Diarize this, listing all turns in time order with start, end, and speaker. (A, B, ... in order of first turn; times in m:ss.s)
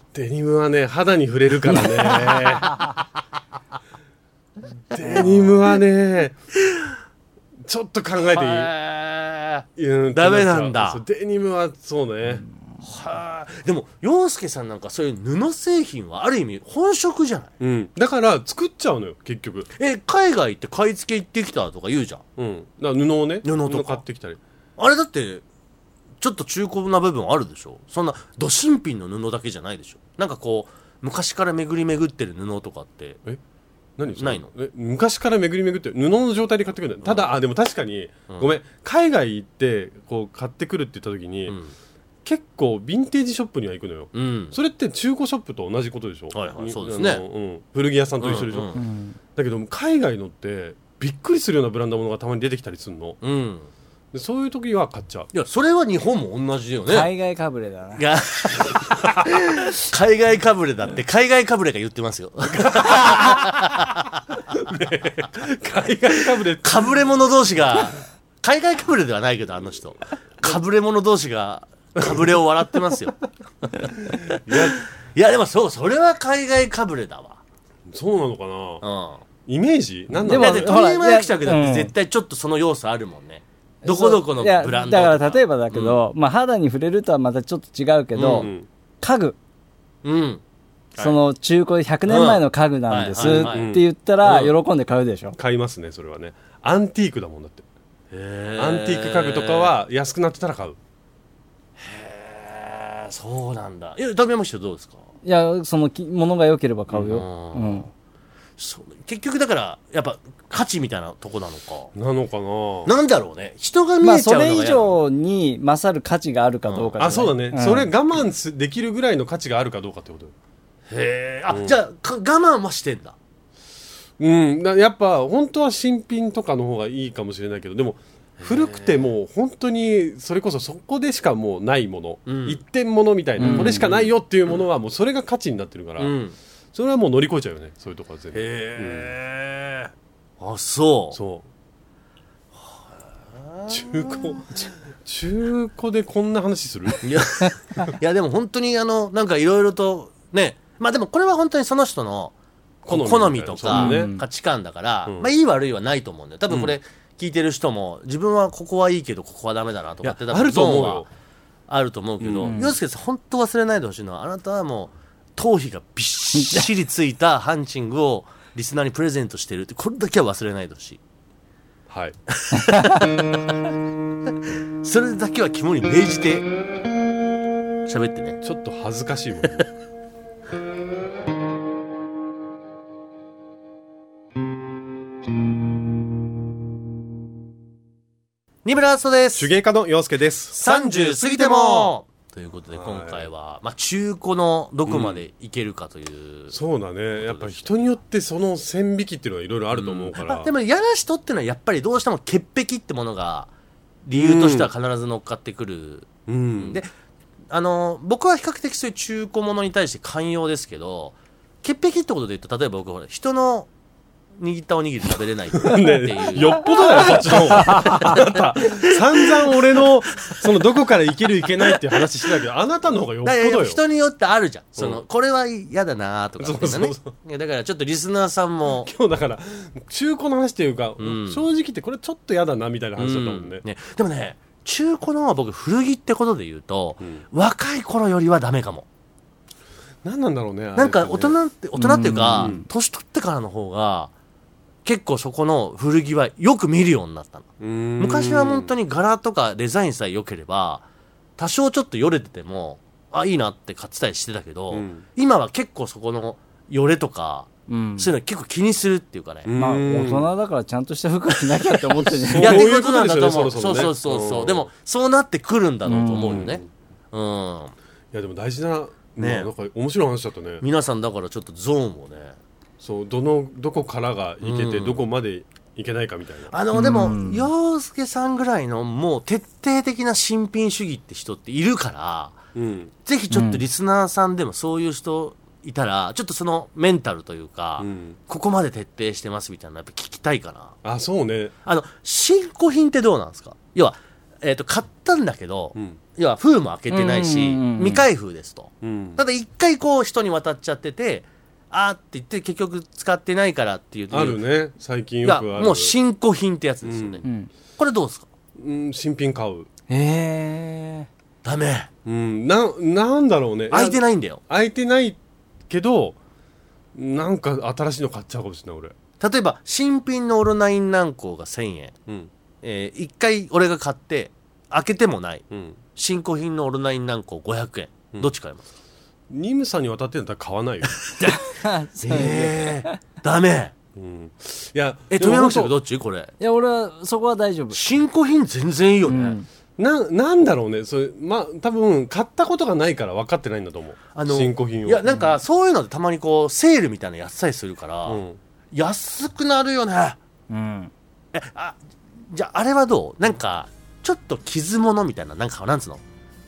0:00.1-0:02.7 A
0:04.9-0:06.4 A
0:05.0-0:05.7 B
0:06.7-0:06.9 B
0:07.6-0:08.7 A
0:08.3-0:11.0 B
0:09.8-0:12.4 A
0:12.8-0:17.5 B
0:17.6-0:19.7 A
0:19.8-0:22.2 B
0:22.4-0:24.4 A
0:23.4-0:24.0 B
0:24.8-0:25.4 B
0:26.2-0:33.2 B
0:34.0-0:41.6 A
0:34.2-0:34.5 B
0:37.0-0:37.3 B
0:41.5-0:41.7 B
0:42.2-0:48.8 A
0:44.1-0:44.5 B
0:46.3-0:47.2 B
0:48.2-0:48.8 B
0:48.7-0:49.2 C
0:49.3-0:53.2 A
0:53.2-0:53.7 B
0:54.1-0:55.3 A
0:55.3-0:57.1 B
0:56.8-0:58.0 C
0:58.0-1:04.2 B
1:02.5-1:03.8 A
1:04.4-1:07.0 A
1:06.1-1:17.4 B
1:12.0-1:12.3 A
1:14.0-1:14.8 A
1:17.9-1:18.8 A
1:18.8-1:19.2 B
1:19.4-1:20.7 A
1:20.2-1:21.9 C
1:20.2-1:26.0 B
1:23.8-1:29.4 C
1:28.1-1:28.5 B
1:28.4-1:28.7 A
1:30.0-1:30.4 B
1:31.0-1:35.4 C
1:32.1-1:34.5 B
1:33.2-1:33.8 A
1:35.4-1:37.6 A
1:38.1-1:39.7 B
1:38.6-1:40.8 A
1:41.8-1:45.0 B
1:45.2-1:47.9 C
1:46.9-1:47.9 B
1:48.6-1:51.9 B
1:51.9-1:52.9 A
1:52.8-1:54.9 B
1:54.0-1:57.9 C
1:56.7-1:57.0 B
1:57.0-2:00.3 A
2:00.9-2:03.1 B
2:01.5-2:01.7 A
2:04.2-2:16.1 A
2:08.4-2:09.0 B
2:12.2-2:12.6 B
2:13.4-2:13.8 C
2:13.4-2:14.1 B
2:16.0-2:16.3 B
2:16.7-2:19.1 A
2:18.3-2:21.2 B
2:21.1-2:21.5 A
2:23.3-2:24.1 B
2:23.7-2:27.0 A
2:27.0-2:32.3 B
2:32.8-2:34.1 A
2:32.9-2:41.1 B
2:33.7-2:34.2 C
2:36.5-2:36.8 A
2:40.0-2:41.1 A
2:41.7-2:51.0 B
2:42.2-2:42.6 A
2:42.4-2:42.7 C
2:46.3-2:46.7 C
2:51.9-2:52.2 A
2:52.3-2:53.1 B
2:52.5-2:53.0 C
2:54.8-2:56.5 B
2:57.8-2:58.4 B
2:58.4-2:59.6 A
3:08.6-3:09.5 B
3:09.3-3:11.9 A
3:10.5-3:16.6 B
3:12.7-3:13.3 A
3:14.9-3:15.2 A
3:16.5-3:20.5 A
3:17.2-3:17.8 B
3:19.7-3:23.5 B
3:24.0-3:26.9 B
3:24.2-3:24.7 A
3:26.3-3:26.8 A
3:27.5-3:33.7 B
3:34.4-3:40.5 B
3:35.6-3:43.8 A
3:37.3-3:38.2 C
3:41.6-3:42.0 B
3:43.2-3:48.9 B
3:46.4-3:47.1 A
3:48.8-3:53.6 A
3:51.0-3:51.4 B
3:53.0-3:58.8 B
4:00.0-4:01.4 A
4:00.8-4:04.1 B
4:01.8-4:02.6 C
4:04.8-4:10.8 B
4:07.6-4:08.7 A
4:11.4-4:19.5 B
4:14.7-4:15.0 A
4:17.7-4:18.1 C
4:19.4-4:20.3 A
4:19.6-4:22.6 C
4:22.0-4:24.7 A
4:22.4-4:27.7 B
4:25.8-4:26.6 C
4:26.4-4:26.6 A
4:28.1-4:30.6 A
4:29.2-4:29.5 B
4:30.6-4:32.4 B
4:32.8-4:36.5 A
4:34.4-4:35.0 B
4:36.5-4:42.4 B
4:36.7-4:37.5 C
4:42.5-4:42.9 A
4:43.0-4:50.8 B
4:43.3-4:43.6 C
4:47.8-4:48.2 A
4:50.8-4:51.5 A
4:51.6-5:04.4 B
4:56.9-4:58.0 C
4:58.8-4:59.2 A
5:04.1-5:05.9 A
5:05.2-5:07.2 B
5:06.8-5:07.2 A
5:07.2-5:07.5 C
5:07.8-5:08.3 B
5:08.6-5:09.7 A
5:09.9-5:11.1 C
5:11.4-5:11.9 B
5:12.0-5:15.2 A
5:13.7-5:14.4 B
5:15.7-5:16.2 A
5:16.9-5:18.9 A
5:19.2-5:22.0 B
5:22.6-5:25.4 B
5:25.5-5:25.8 A
5:26.0-5:28.6 B
5:29.3-5:31.0 A
5:31.0-5:31.4 B
5:31.5-5:32.9 C
5:32.0-5:33.7 B
5:34.0-5:35.7 A
5:35.1-5:36.3 B
5:36.4-5:37.8 C
5:37.7-5:39.4 B
5:39.0-5:39.5 C
5:39.8-5:45.1 A
5:44.1-5:48.2 B
5:48.0-5:48.4 A
5:48.7-5:50.2 B
5:50.5-5:50.9 C
5:51.3-5:51.8 B
5:52.3-5:56.0 B